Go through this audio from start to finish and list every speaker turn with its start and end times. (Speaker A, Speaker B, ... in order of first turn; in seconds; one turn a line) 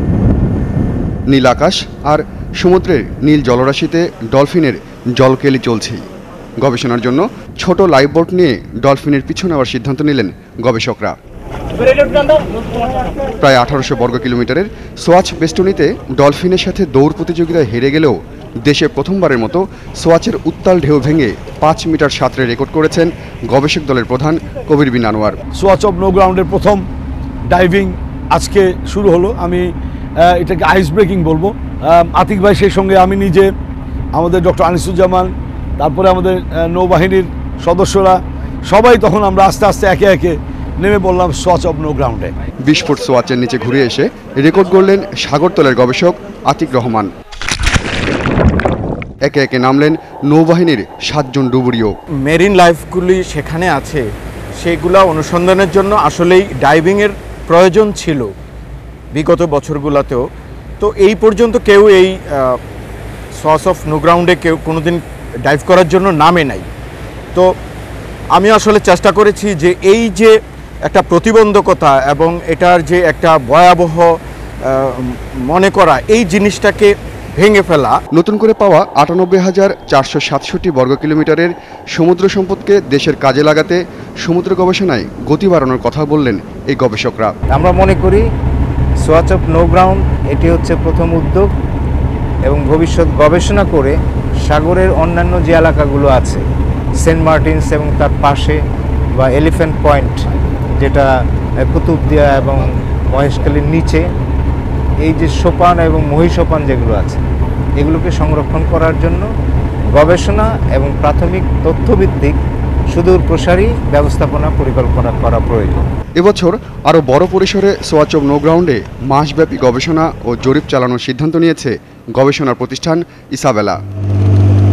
Speaker A: 1.3-6.0
Speaker A: 6.6-11.2
Speaker A: 13.4-25.4
Speaker B: 25.6-26.8
Speaker B: 27.5-33.5
Speaker B: 34.1-42.3
Speaker A: 42.6-47.1
Speaker A: 49.2-51.9
Speaker C: 52.2-54.1
Speaker C: 54.6-58.3
Speaker C: 59.1-60.2
Speaker C: 60.8-62.6
Speaker C: 63.4-66.7
Speaker C: 68.3-70.3
Speaker C: 70.8-74.1
Speaker C: 74.6-77.9
Speaker A: 78.1-87.3
Speaker D: 87.5-88.2
Speaker D: 89.0-91.5
Speaker D: 92.4-96.4
Speaker D: 97.0-98.6
Speaker D: 99.1-100.2
Speaker D: 100.7-104.1
Speaker D: 105.0-107.2
Speaker D: 107.8-109.3
Speaker D: 109.9-115.9
Speaker A: 116.2-123.8